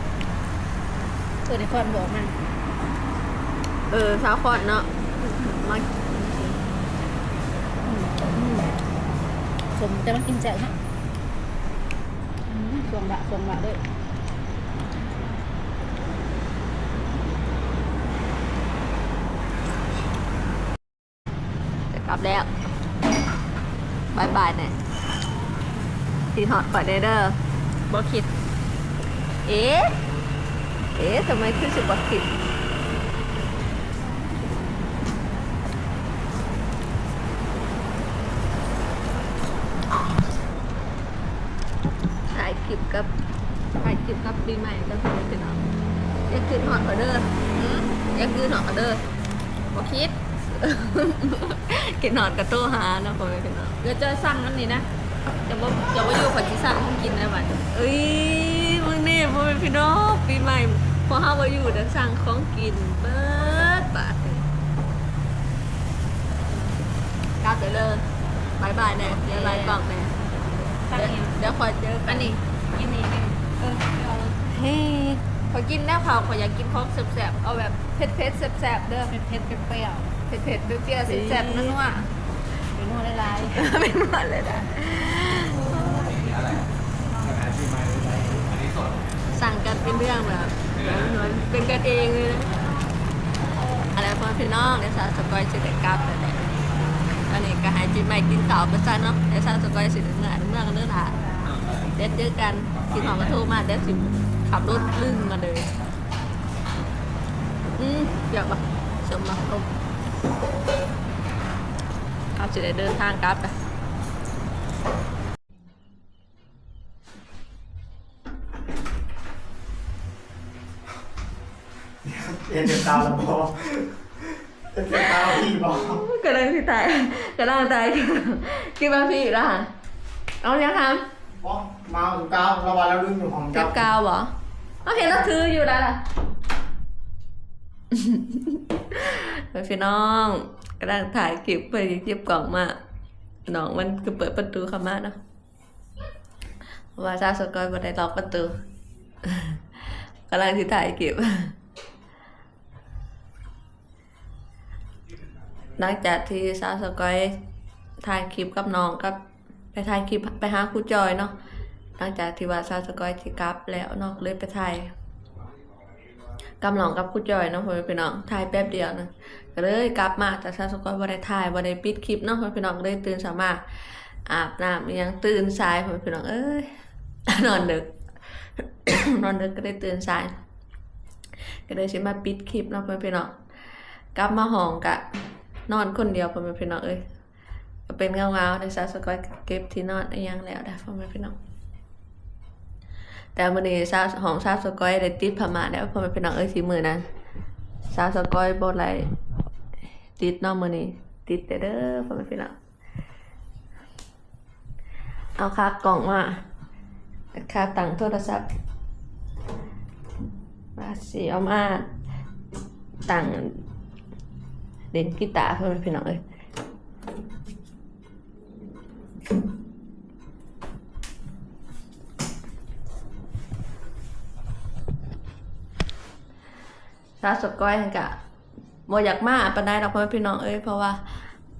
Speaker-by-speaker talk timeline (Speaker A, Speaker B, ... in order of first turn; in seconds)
Speaker A: 1.4-2.3, 7.8-8.6, 9.7-10.7, 12.5-13.8, 70.9-71.4, 72.1-73.3, 79.1-80.1, 82.7-83.6
Speaker B: 3.9-6.6, 21.9-22.5, 24.1-24.8, 26.3-27.4, 30.9-32.3, 42.3-43.1, 43.8-45.7, 46.3-47.3, 48.1-49.0, 50.5-53.8, 57.7-64.5, 68.8-70.1, 70.9-72.3, 74.5-75.2, 81.0-82.0, 83.5-86.2, 89.3-92.5, 93.9-96.5, 97.3-101.2, 101.8-105.7, 107.8-109.6, 112.3-113.5, 125.0-129.7, 130.4-131.0, 133.5-134.3, 134.8-136.0, 137.9-142.7, 143.5-145.2, 146.9-148.5, 149.2-149.6, 150.3-151.5, 155.8-157.3, 158.0-159.2, 159.7-161.3, 162.0-164.9, 166.6-176.7, 177.3-177.9, 178.6-180.3, 181.7-183.3, 184.1-185.0, 185.7-187.0, 187.9-191.3, 193.3-197.0, 197.9-199.1, 200.2-202.5, 205.4-206.4, 207.3-208.4, 210.8-211.9, 213.1-213.6, 214.9-216.2, 227.2-228.1, 228.9-231.2
Speaker C: 29.5-29.9, 47.5-48.0, 49.7-50.1, 53.8-54.9, 55.5-57.6, 67.4-68.0, 68.6-69.8, 72.0-72.4, 73.6-74.3, 75.5-79.2, 80.3-82.1
Speaker D: 122.0-123.8, 124.7-126.0, 131.4-133.8